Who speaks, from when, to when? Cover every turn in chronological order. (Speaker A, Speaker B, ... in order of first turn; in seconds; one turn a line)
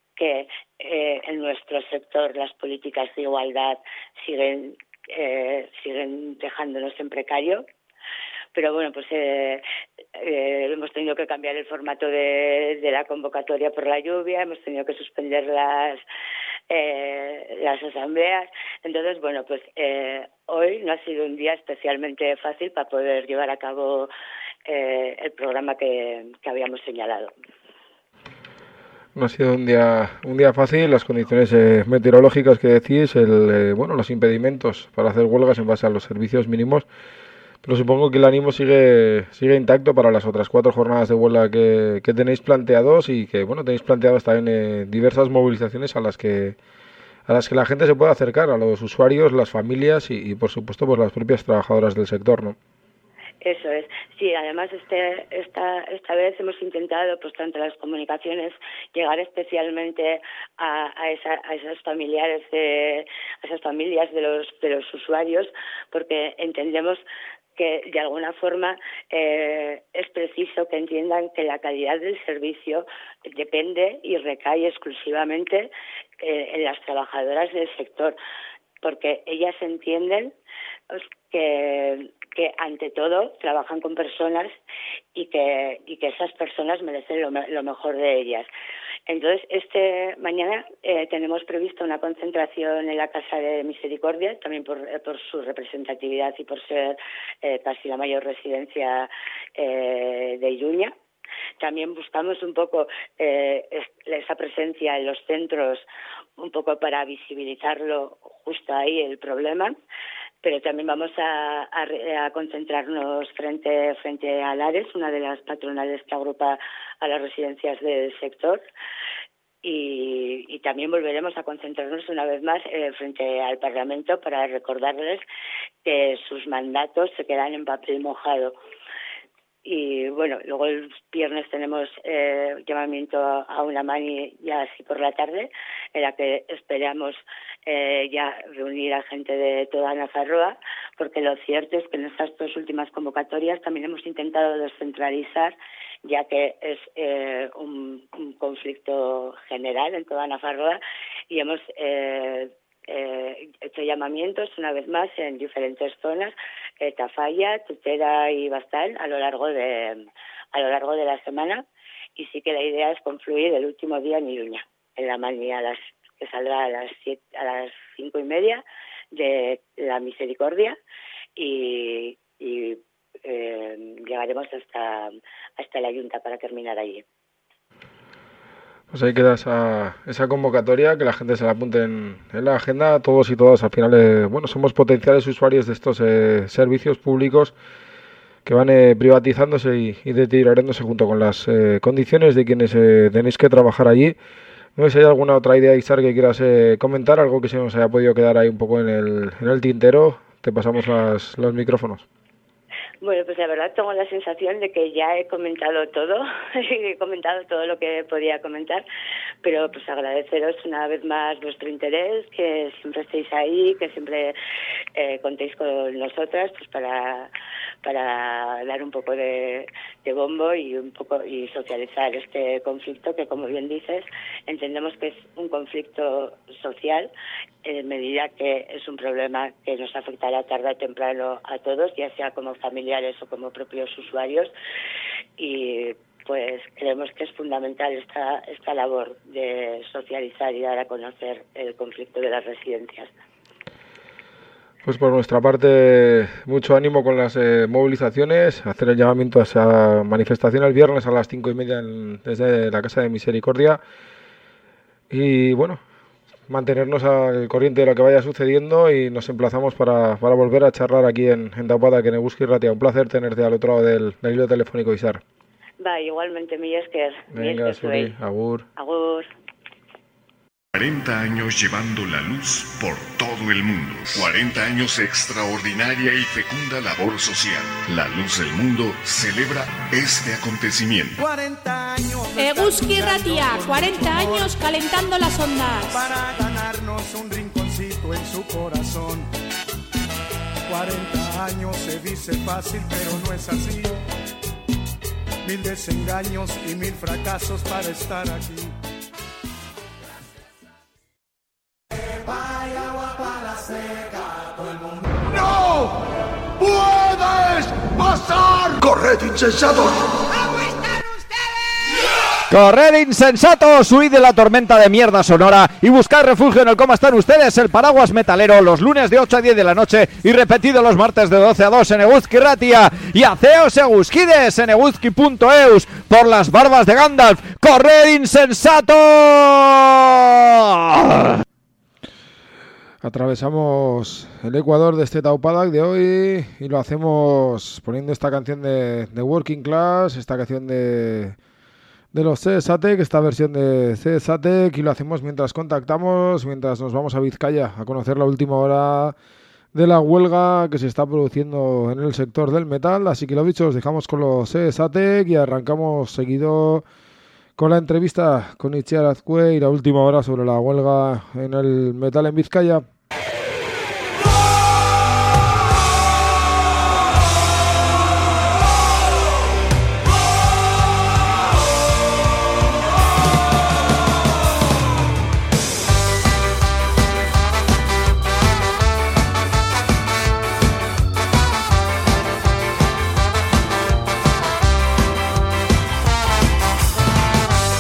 Speaker A: 0.2-7.6
Speaker A: 8.6-9.6
Speaker A: 10.2-16.0
Speaker A: 16.7-24.1
Speaker A: 24.6-27.3
Speaker B: 29.1-36.9
Speaker B: 37.6-46.6
Speaker B: 47.3-52.6
Speaker A: 53.4-67.0
Speaker A: 67.6-78.2
Speaker A: 78.8-80.3
Speaker A: 80.9-84.5
Speaker A: 85.1-88.5
Speaker A: 89.1-100.9
Speaker A: 101.6-105.9
Speaker A: 106.4-109.8
Speaker A: 110.4-118.6
Speaker A: 119.6-125.2
Speaker A: 125.8-128.6
Speaker A: 129.6-145.6
Speaker A: 146.1-161.6
Speaker A: 162.2-168.6
Speaker A: 169.1-170.8
Speaker A: 171.4-177.1
Speaker B: 178.9-187.6
Speaker B: 188.4-194.2
Speaker B: 194.8-202.1
Speaker A: 203.0-208.8
Speaker A: 209.4-214.4
Speaker A: 215.0-217.3
Speaker A: 217.8-227.1
Speaker A: 227.6-234.5
Speaker A: 235.4-243.1
Speaker B: 244.8-253.8
Speaker B: 255.1-255.8
Speaker B: 256.5-265.2
Speaker A: 265.8-268.1
Speaker B: 267.3-268.6
Speaker A: 268.8-269.3
Speaker C: 270.8-281.2
Speaker D: 281.2-284.6
Speaker E: 282.4-285.9
Speaker D: 285.9-289.3
Speaker D: 290.7-294.0
Speaker D: 295.4-298.7
Speaker F: 305.3-305.9
Speaker F: 306.6-310.0
Speaker G: 312.5-331.3
Speaker B: 333.0-341.4
Speaker B: 342.1-349.1
Speaker B: 349.7-356.9
Speaker B: 357.6-362.8